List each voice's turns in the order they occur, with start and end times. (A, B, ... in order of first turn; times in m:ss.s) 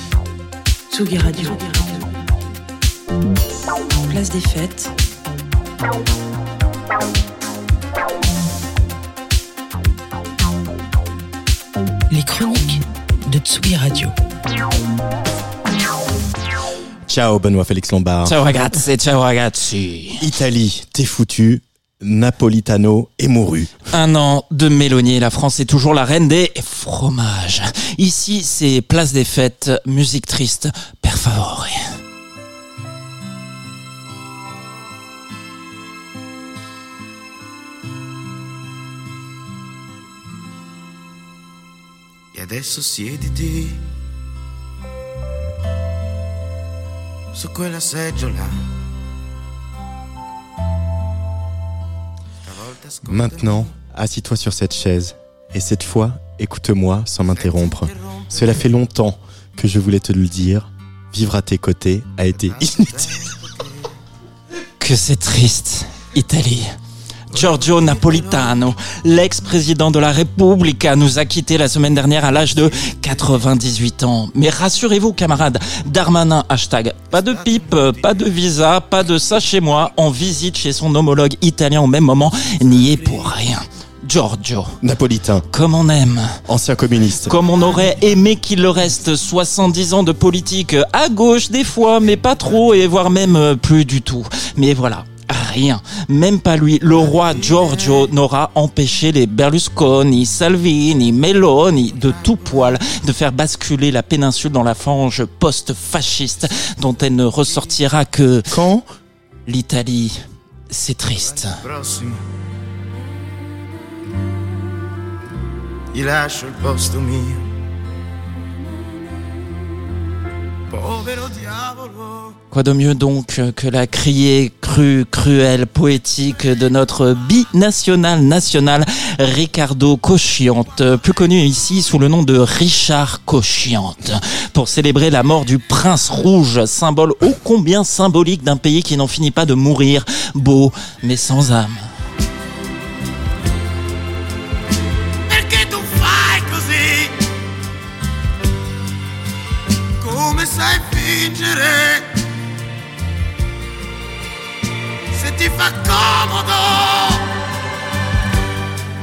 0:00.9-0:02.0 A
0:04.1-0:04.9 A
0:12.1-0:14.1 A
0:17.1-0:18.4 B
0:18.2-0:20.3 C
0:20.2-0:23.8 B
0:23.9-0:31.8 C
0:42.3-0:43.9 D
0:47.3-0:48.7 D
0:52.4-0:53.7 D
0:53.0-1:03.4 B
0:57.3-0:58.2 D
1:02.4-1:03.7 D
1:04.8-1:06.7 C
1:07.3-1:24.8 C
1:07.3-1:08.5 D
1:24.8-1:25.4 B
1:25.5-1:26.4 C
1:26.5-1:27.4 B
1:27.2-1:48.6 C
1:48.5-1:48.8 B
1:49.4-1:50.2 C
1:50.7-1:51.6 C
1:51.6-1:52.2 D
1:55.9-1:57.5 D
2:00.7-2:02.3 D
2:02.5-2:21.9 C
2:25.3-2:27.2 D
2:30.0-2:32.1 D
2:35.1-2:37.3 D